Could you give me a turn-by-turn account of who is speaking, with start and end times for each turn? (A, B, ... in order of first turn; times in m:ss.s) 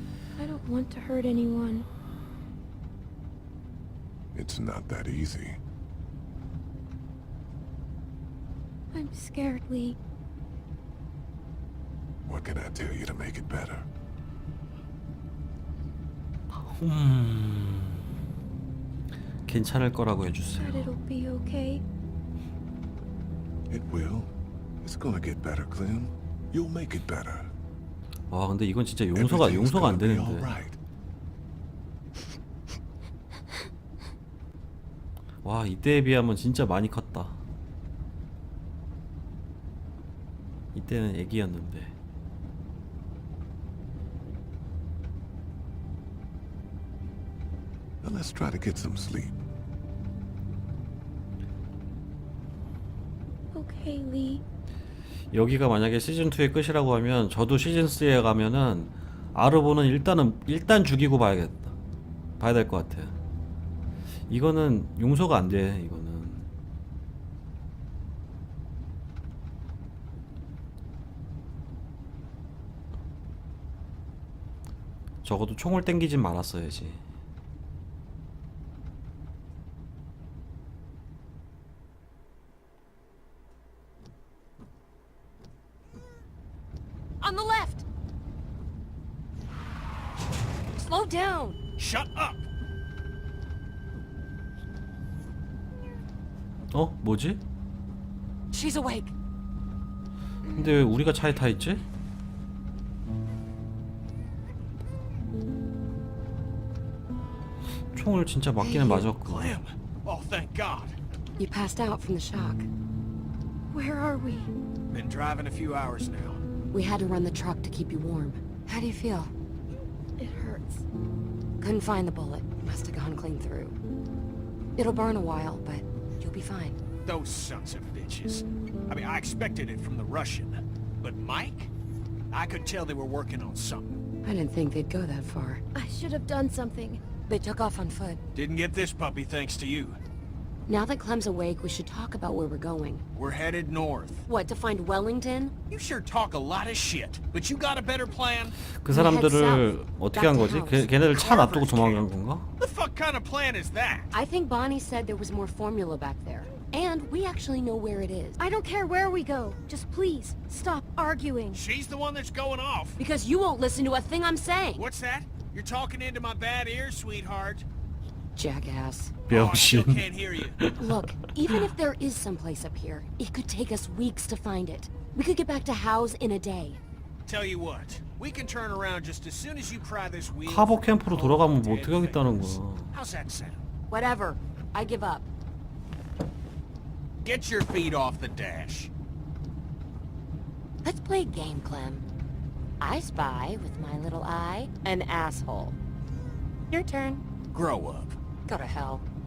0:00.4-0:01.8 A
0:04.3-0:05.6 B
0:08.9-0:10.0 A
0:12.2-0:13.8 B
0:16.5-0:18.0 C
0:19.4-0:20.9 C
0:20.6-0:21.8 A
0:23.7-0:24.3 B
0:24.8-0:27.5 B
0:28.3-0:30.5 C
0:29.1-0:30.8 B
0:35.4-0:37.4 C
0:40.7-0:41.9 C
0:48.0-0:49.3 B
0:53.5-0:54.4 A
0:55.3-1:01.8 C
1:02.4-1:03.1 C
1:04.3-1:06.5 C
1:15.2-1:17.0 C
1:27.2-1:27.8 D
1:30.8-1:31.6 D
1:31.8-1:32.4 E
1:36.7-1:37.4 C
1:38.5-1:39.1 D
1:40.5-1:41.8 C
1:47.9-1:49.6 C
1:48.6-1:49.0 D
1:48.9-1:51.0 E
1:51.4-1:52.7 D
1:53.7-1:54.5 A
1:54.9-1:56.4 E
1:56.7-1:59.3 D
2:00.2-2:00.8 A
2:01.6-2:03.8 D
2:04.8-2:06.8 D
2:07.0-2:11.7 E
2:12.3-2:14.0 E
2:14.2-2:15.6 D
2:15.7-2:17.0 A
2:17.3-2:18.2 D
2:18.3-2:20.0 E
2:20.7-2:23.0 D
2:23.1-2:24.3 E
2:24.3-2:25.5 D
2:25.7-2:28.6 E
2:28.8-2:32.5 C
2:28.9-2:30.9 D
2:31.1-2:32.0 E
2:32.6-2:34.1 E
2:34.1-2:38.4 D
2:38.4-2:41.6 A
2:41.5-2:43.0 E
2:43.0-2:44.8 D
2:44.7-2:47.6 E
2:48.3-2:49.2 D
2:49.3-2:50.6 E
2:49.3-2:50.0 C
2:50.6-2:50.9 C
2:50.8-2:56.8 D
2:57.3-3:03.6 E
3:00.4-3:02.9 C
3:03.9-3:05.3 D
3:07.2-3:08.9 E
3:10.8-3:12.0 D
3:12.8-3:15.8 D
3:16.7-3:17.2 D
3:17.5-3:18.2 E
3:18.5-3:19.0 D